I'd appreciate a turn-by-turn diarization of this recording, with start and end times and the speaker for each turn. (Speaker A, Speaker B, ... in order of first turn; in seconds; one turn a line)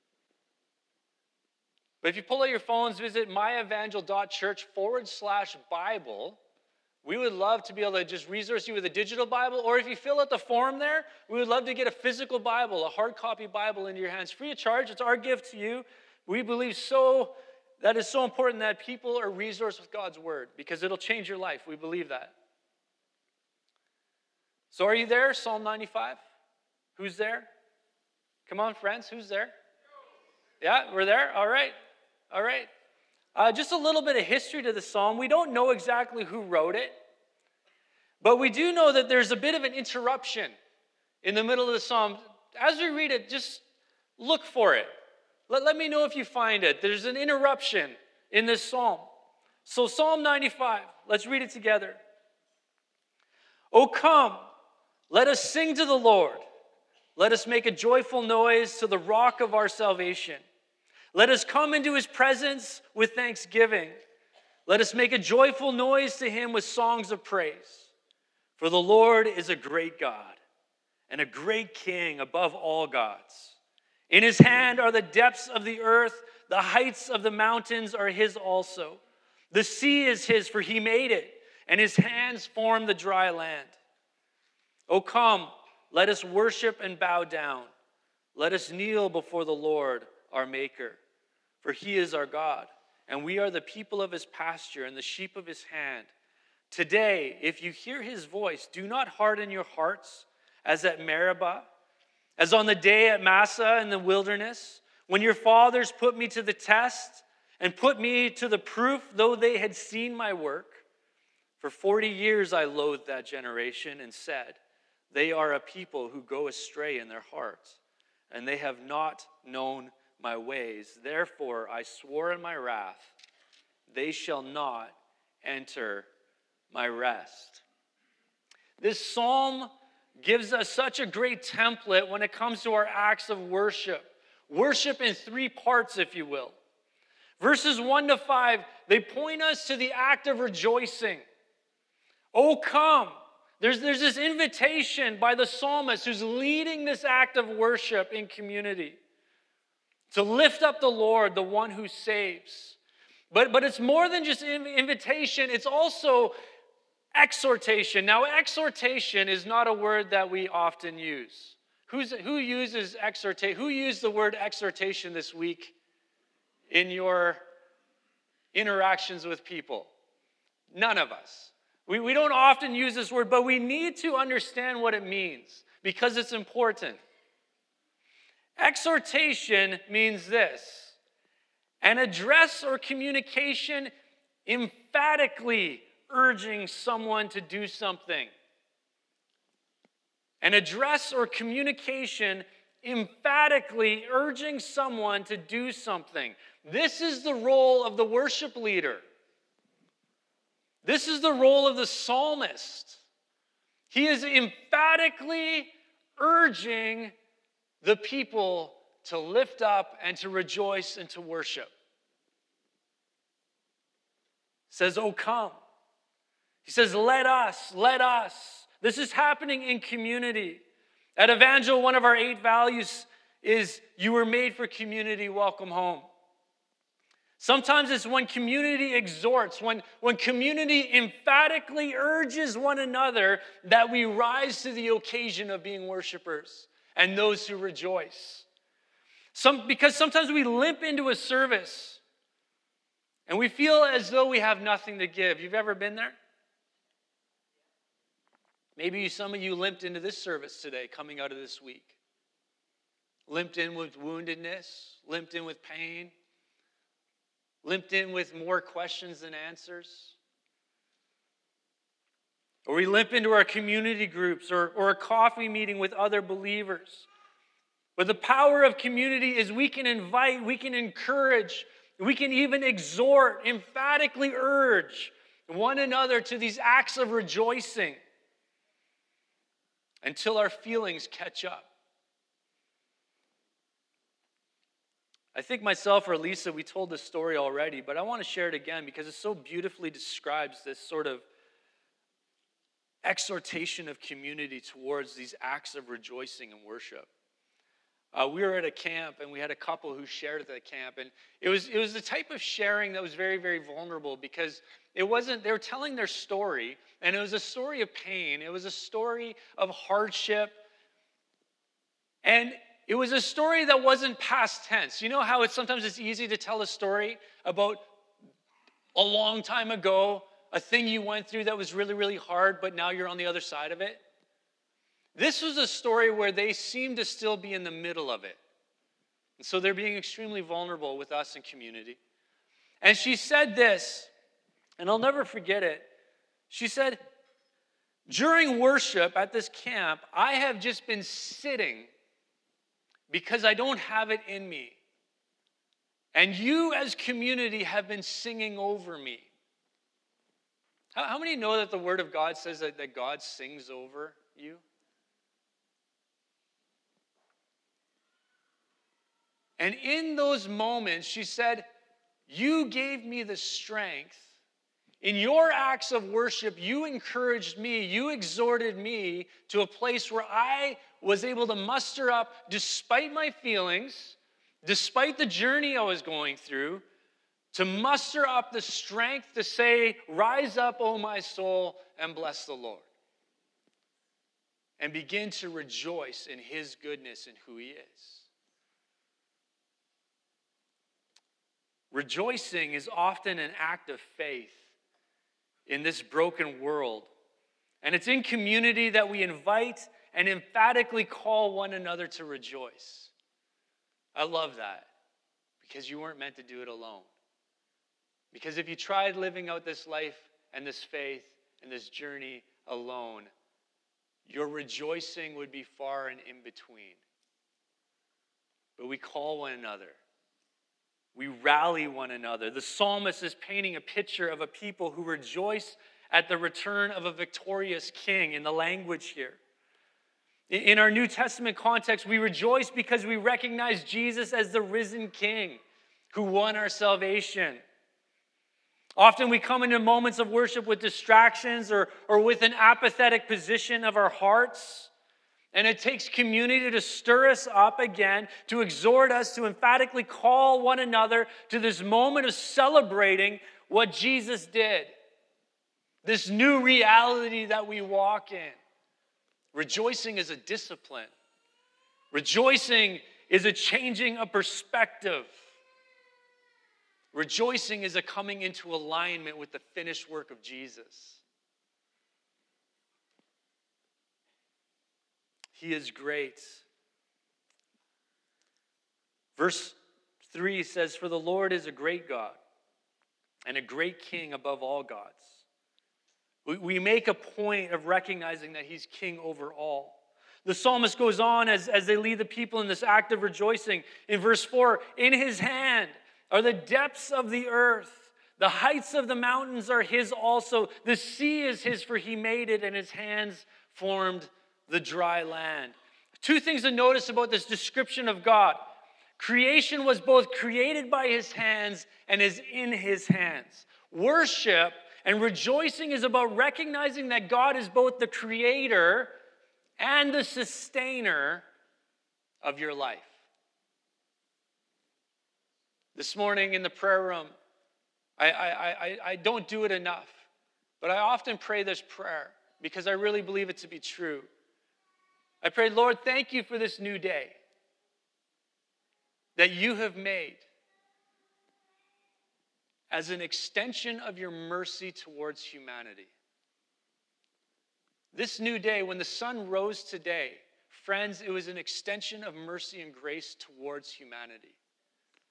Speaker A: 2.0-6.4
Speaker A: 7.0-22.3
Speaker A: 24.7-26.2
Speaker A: 26.9-27.5
Speaker A: 28.5-29.5
Speaker A: 30.6-31.7
Speaker A: 32.3-32.7
Speaker A: 33.3-36.9
Speaker A: 38.2-40.5
Speaker A: 41.2-43.6
Speaker A: 44.2-44.9
Speaker A: 45.5-49.1
Speaker A: 49.6-52.0
Speaker A: 53.7-54.4
Speaker A: 55.1-56.4
Speaker A: 57.1-60.4
Speaker A: 61.1-63.9
Speaker A: 64.7-67.9
Speaker A: 68.6-70.4
Speaker A: 71.1-73.6
Speaker A: 74.1-79.0
Speaker A: 79.5-83.8
Speaker A: 84.9-87.7
Speaker A: 88.3-91.0
Speaker A: 91.6-96.1
Speaker A: 96.7-101.7
Speaker A: 102.4-110.8
Speaker A: 111.6-114.6
Speaker A: 115.1-117.8
Speaker A: 118.3-123.1
Speaker A: 123.9-126.1
Speaker A: 126.7-127.6
Speaker A: 128.8-136.6
Speaker A: 137.4-141.2
Speaker A: 142.3-149.0
Speaker A: 150.1-152.8
Speaker A: 153.3-156.3
Speaker A: 157.1-165.7
Speaker A: 166.7-167.4
Speaker A: 168.5-169.9
Speaker A: 170.7-177.0
Speaker A: 178.6-181.0
Speaker A: 181.8-183.9
Speaker A: 184.4-188.3
Speaker A: 190.4-199.0
Speaker A: 200.8-203.0
Speaker A: 203.9-207.1
Speaker A: 207.8-211.7
Speaker A: 214.7-215.5
Speaker A: 216.6-220.6
Speaker A: 221.2-226.0
Speaker A: 227.4-238.4
Speaker A: 239.3-242.0
Speaker A: 243.3-246.2
Speaker A: 248.8-252.0
Speaker A: 253.3-256.1
Speaker A: 257.6-260.1
Speaker A: 262.6-267.1
Speaker A: 267.9-278.0
Speaker A: 280.0-281.7
Speaker A: 285.3-291.2
Speaker A: 293.0-297.1
Speaker A: 298.1-310.6
Speaker A: 312.2-317.9
Speaker A: 318.9-324.0
Speaker A: 325.1-328.4
Speaker A: 329.4-332.0
Speaker A: 332.8-334.1
Speaker A: 334.8-335.9
Speaker A: 336.5-337.0
Speaker A: 338.1-341.9
Speaker A: 343.1-344.8
Speaker A: 346.1-349.3
Speaker A: 350.9-354.6
Speaker A: 359.6-361.6
Speaker A: 362.3-364.3
Speaker A: 365.0-376.8
Speaker A: 377.5-382.9
Speaker A: 384.8-388.3
Speaker A: 391.9-394.6
Speaker A: 395.7-397.1
Speaker A: 397.8-403.1
Speaker A: 404.1-404.9
Speaker A: 405.6-407.1
Speaker A: 408.3-413.3
Speaker A: 414.2-417.0
Speaker A: 418.8-420.0
Speaker A: 421.1-429.4
Speaker A: 430.5-435.6
Speaker A: 436.1-437.6
Speaker A: 439.0-444.9
Speaker A: 445.5-454.9
Speaker A: 456.0-458.6
Speaker A: 459.5-461.1
Speaker A: 462.1-465.3
Speaker A: 467.1-471.2
Speaker A: 475.5-476.6
Speaker A: 479.4-482.4
Speaker A: 483.5-485.4
Speaker A: 486.4-519.1
Speaker A: 519.8-521.4
Speaker A: 522.4-523.1
Speaker A: 525.9-527.3
Speaker A: 528.2-530.2
Speaker A: 530.8-534.3
Speaker A: 535.4-537.4
Speaker A: 539.4-540.4
Speaker A: 542.9-546.1
Speaker A: 548.1-554.6